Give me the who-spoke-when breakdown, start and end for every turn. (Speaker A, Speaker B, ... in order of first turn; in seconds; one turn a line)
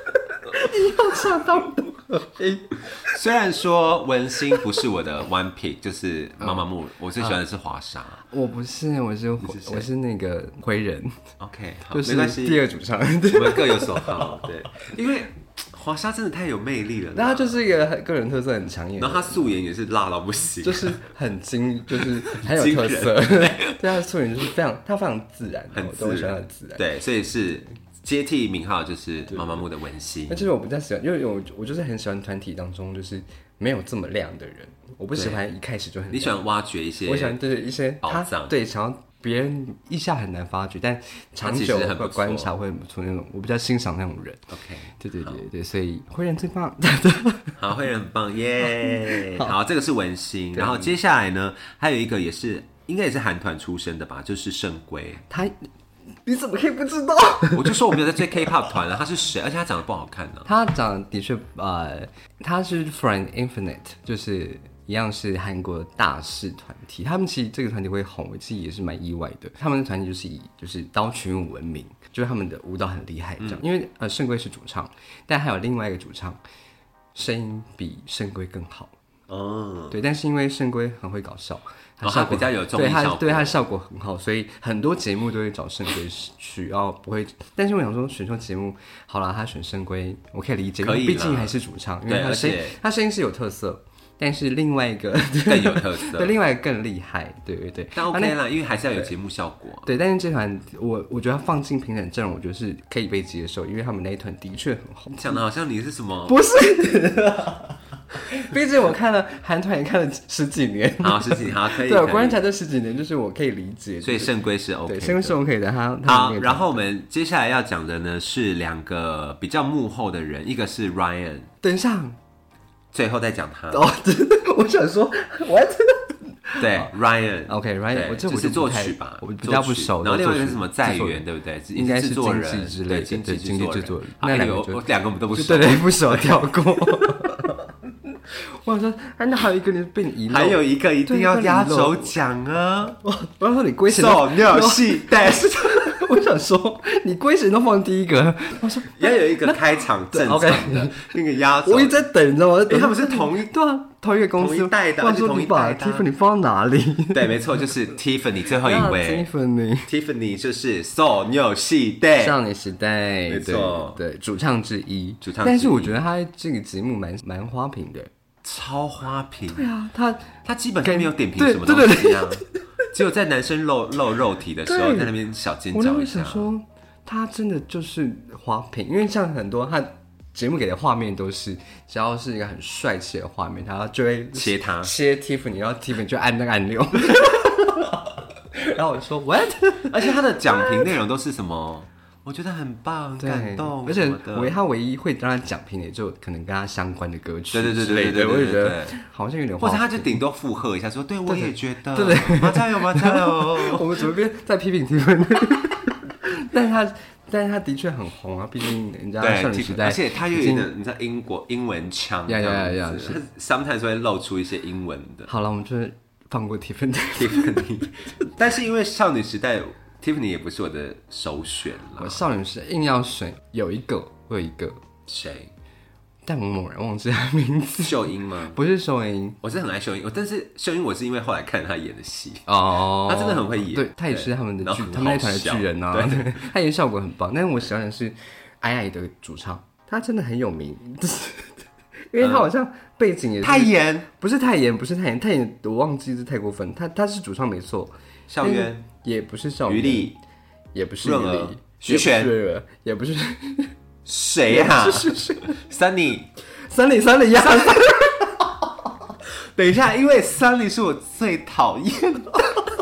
Speaker A: 0.3-3.1
Speaker B: 2.9-8.2
Speaker A: 8.3-11.2
Speaker B: 9.4-9.9
Speaker B: 11.4-12.6
Speaker A: 11.9-14.8
Speaker B: 13.3-17.6
Speaker A: 17.1-19.6
Speaker B: 19.0-21.0
Speaker A: 20.6-26.9
Speaker B: 21.9-23.8
Speaker B: 25.7-30.5
Speaker A: 29.3-29.6
Speaker A: 30.3-36.4
Speaker B: 35.1-35.4
Speaker B: 36.1-37.4
Speaker A: 37.1-44.5
Speaker B: 38.0-38.5
Speaker B: 41.4-42.5
Speaker B: 44.5-45.4
Speaker A: 45.0-47.6
Speaker B: 47.6-55.2
Speaker A: 48.6-49.5
Speaker A: 50.5-50.9
Speaker A: 55.3-55.7
Speaker A: 56.2-58.7
Speaker B: 57.5-60.5
Speaker A: 60.5-76.4
Speaker A: 77.2-78.9
Speaker B: 79.3-80.0
Speaker A: 79.9-98.4
Speaker B: 82.0-83.6
Speaker B: 90.8-91.6
Speaker B: 92.1-92.8
Speaker B: 95.5-96.3
Speaker B: 98.0-99.9
Speaker A: 99.8-105.4
Speaker B: 105.1-106.4
Speaker A: 106.3-107.8
Speaker A: 108.3-114.3
Speaker B: 111.0-112.4
Speaker B: 114.0-115.4
Speaker A: 114.9-116.8
Speaker B: 116.0-121.5
Speaker A: 121.6-122.2
Speaker B: 122.9-123.9
Speaker A: 123.7-126.9
Speaker B: 126.6-137.4
Speaker A: 127.5-137.6
Speaker A: 138.6-142.1
Speaker B: 140.3-143.0
Speaker A: 143.0-157.4
Speaker B: 143.9-146.0
Speaker B: 148.9-152.0
Speaker B: 152.7-153.5
Speaker B: 154.4-156.1
Speaker B: 157.1-159.3
Speaker A: 158.6-159.9
Speaker B: 159.9-162.4
Speaker A: 162.2-168.1
Speaker B: 163.3-164.0
Speaker B: 165.2-165.9
Speaker B: 168.4-169.7
Speaker A: 169.5-172.6
Speaker B: 170.4-176.5
Speaker A: 174.7-175.1
Speaker A: 175.7-188.0
Speaker B: 184.3-184.9
Speaker A: 188.5-190.9
Speaker B: 189.9-194.5
Speaker A: 193.2-200.2
Speaker B: 197.5-199.0
Speaker B: 199.6-204.1
Speaker A: 201.3-210.7
Speaker B: 209.2-215.3
Speaker A: 212.3-213.2
Speaker A: 215.3-218.3
Speaker B: 217.2-222.2
Speaker A: 222.0-224.8
Speaker B: 225.1-225.5
Speaker A: 226.2-229.4
Speaker B: 227.8-228.6
Speaker B: 229.4-236.4
Speaker A: 232.5-250.1
Speaker B: 242.2-242.5
Speaker B: 243.4-244.1
Speaker B: 248.3-248.8
Speaker B: 249.7-250.2
Speaker A: 250.7-253.7
Speaker B: 251.0-252.3
Speaker B: 254.1-256.3
Speaker A: 254.5-255.6
Speaker A: 256.7-258.5
Speaker B: 257.5-257.8
Speaker B: 259.3-262.4